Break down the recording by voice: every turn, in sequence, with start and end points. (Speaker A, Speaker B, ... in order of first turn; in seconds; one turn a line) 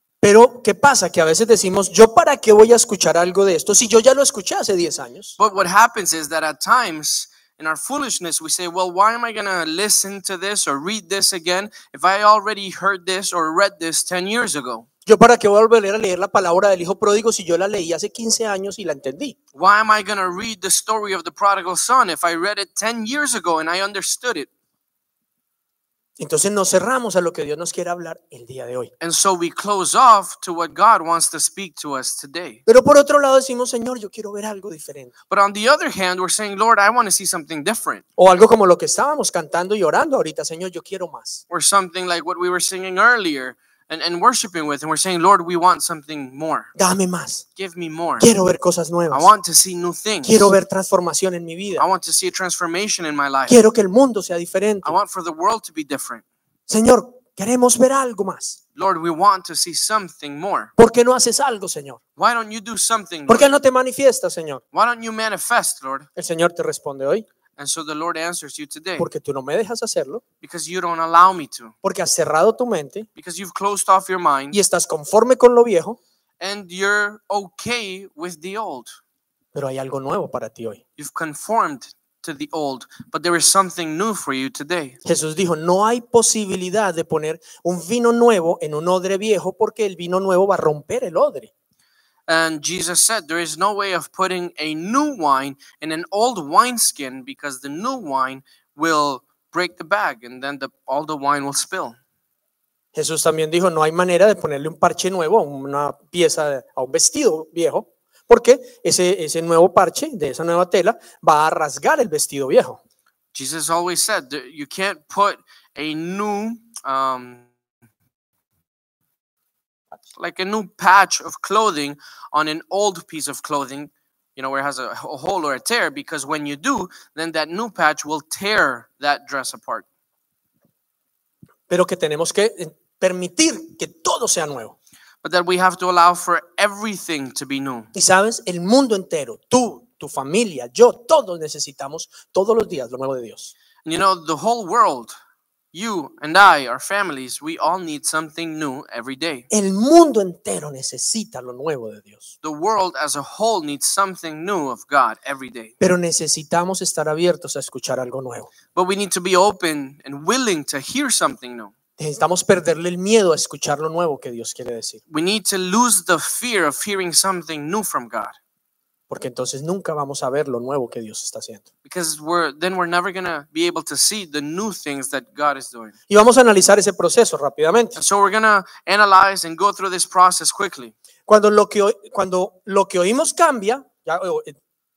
Speaker A: 0.2-5.4
Speaker B: 5.4-14.9
Speaker A: 15.1-19.4
Speaker B: 19.5-24.5
Speaker A: 26.2-28.9
Speaker B: 29.0-32.6
Speaker A: 32.7-35.1
Speaker B: 35.3-38.0
Speaker A: 38.2-41.4
Speaker B: 41.5-46.7
Speaker A: 46.8-47.4
Speaker B: 47.6-48.3
Speaker A: 48.2-49.3
Speaker B: 49.1-50.5
Speaker A: 50.2-51.9
Speaker B: 51.8-53.5
Speaker A: 53.5-55.0
Speaker B: 54.8-56.2
Speaker A: 56.7-58.6
Speaker B: 58.8-60.7
Speaker A: 60.8-62.0
Speaker B: 62.2-63.5
Speaker A: 63.3-64.6
Speaker B: 64.7-66.1
Speaker A: 66.2-67.2
Speaker B: 67.6-69.1
Speaker A: 69.0-70.2
Speaker B: 70.4-71.7
Speaker A: 71.8-73.1
Speaker B: 73.2-74.6
Speaker A: 74.5-76.0
Speaker B: 76.4-79.0
Speaker A: 79.5-80.8
Speaker B: 81.0-85.0
Speaker A: 85.0-91.5
Speaker B: 92.3-102.0
Speaker A: 102.9-112.8
Speaker B: 113.3-117.5
Speaker B: 120.2-129.8
Speaker A: 131.7-134.8
Speaker B: 135.2-137.9
Speaker A: 137.9-143.5
Speaker B: 143.8-145.1
Speaker B: 145.7-149.5
Speaker A: 149.5-152.3
Speaker B: 152.4-155.7
Speaker A: 155.8-158.5
Speaker B: 158.7-161.7
Speaker A: 162.0-165.0
Speaker B: 165.1-168.4
Speaker A: 169.1-171.6
Speaker B: 171.8-175.9
Speaker A: 176.1-178.0
Speaker B: 177.9-180.9
Speaker A: 181.3-184.6